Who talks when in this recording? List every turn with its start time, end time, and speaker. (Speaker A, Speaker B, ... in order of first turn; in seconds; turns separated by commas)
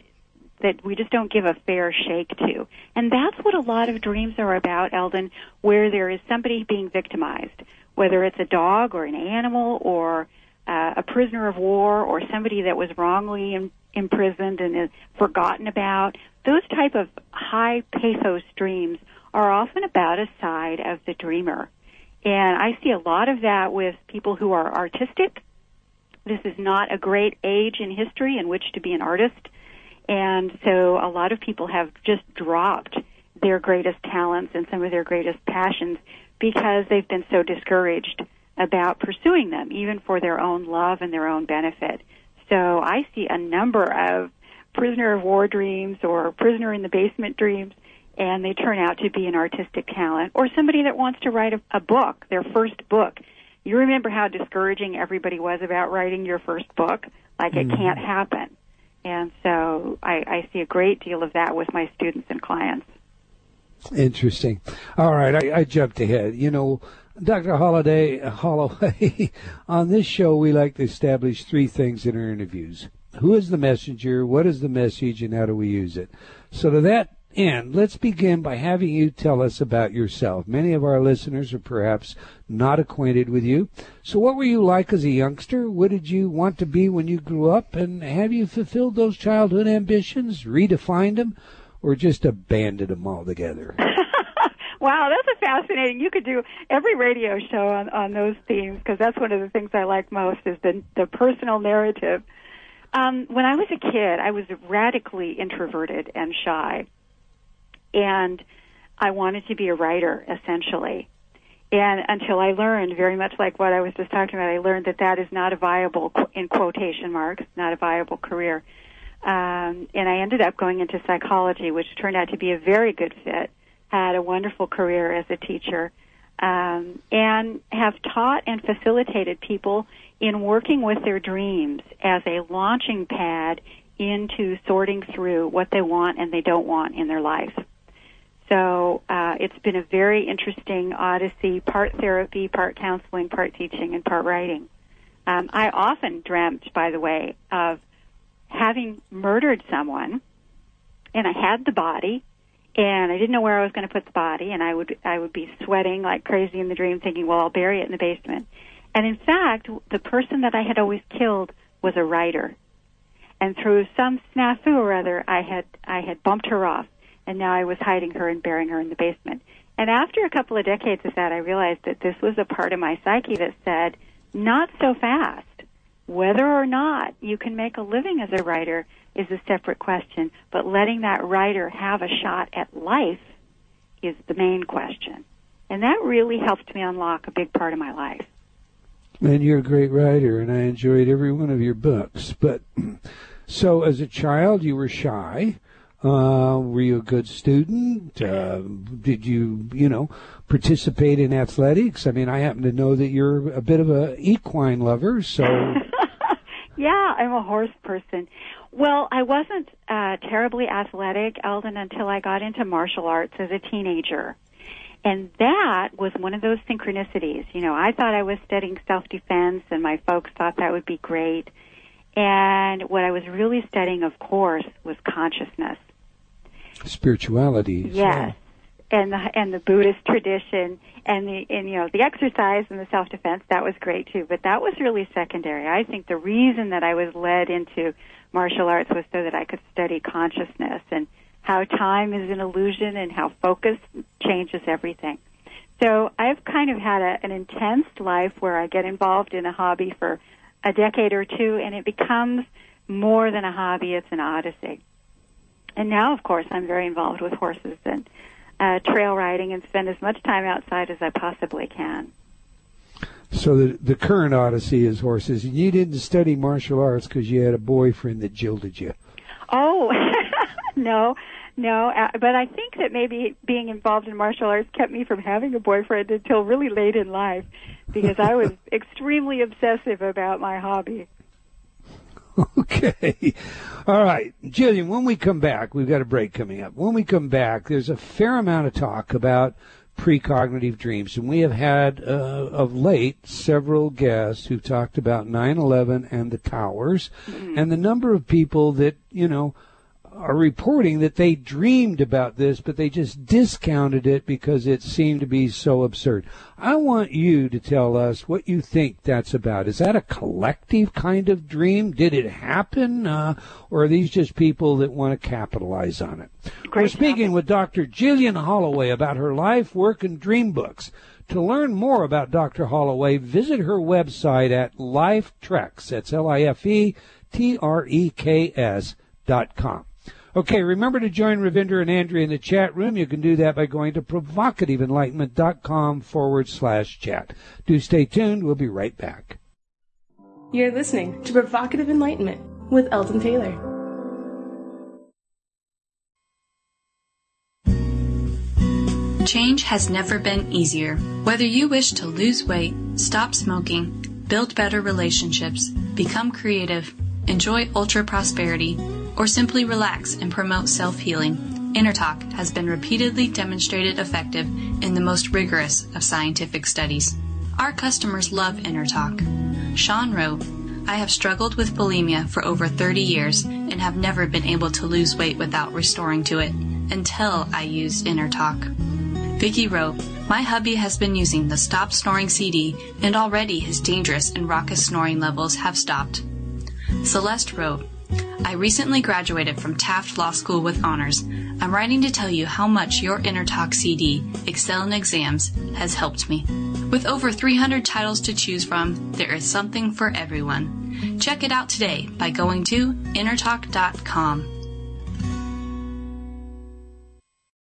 Speaker A: 0.6-21.7, Speaker A: 22.2-25.4, Speaker A: 26.3-29.5, Speaker A: 30.1-58.5, Speaker B: 57.5-58.0, Speaker A: 59.0-62.9, Speaker B: 63.9-93.8, Speaker A: 93.9-102.2, Speaker A: 102.9-106.9, Speaker A: 107.9-108.4, Speaker A: 109.0-111.1, Speaker A: 111.7-118.6, Speaker A: 119.2-137.6, Speaker A: 138.5-144.7, Speaker A: 145.3-147.8, Speaker A: 148.5-150.2, Speaker A: 151.1-152.2, Speaker A: 152.8-162.6, Speaker A: 163.4-183.2, Speaker A: 184.0-188.3, Speaker B: 189.2-205.8, Speaker A: 205.5-214.4, Speaker A: 215.1-221.5, Speaker A: 222.2-225.8, Speaker B: 226.8-228.3, Speaker A: 227.9-228.3, Speaker A: 228.9-245.2, Speaker A: 245.8-254.8, Speaker A: 255.8-258.1, Speaker A: 258.6-262.1, Speaker B: 263.3-268.9, Speaker A: 269.5-281.1, Speaker B: 282.4-299.5, Speaker A: 297.3-297.6, Speaker B: 300.1-339.4, Speaker A: 316.7-317.3, Speaker C: 340.5-343.6, Speaker D: 349.2-378.7, Speaker D: 379.4-386.3, Speaker D: 387.0-387.9, Speaker D: 388.4-404.6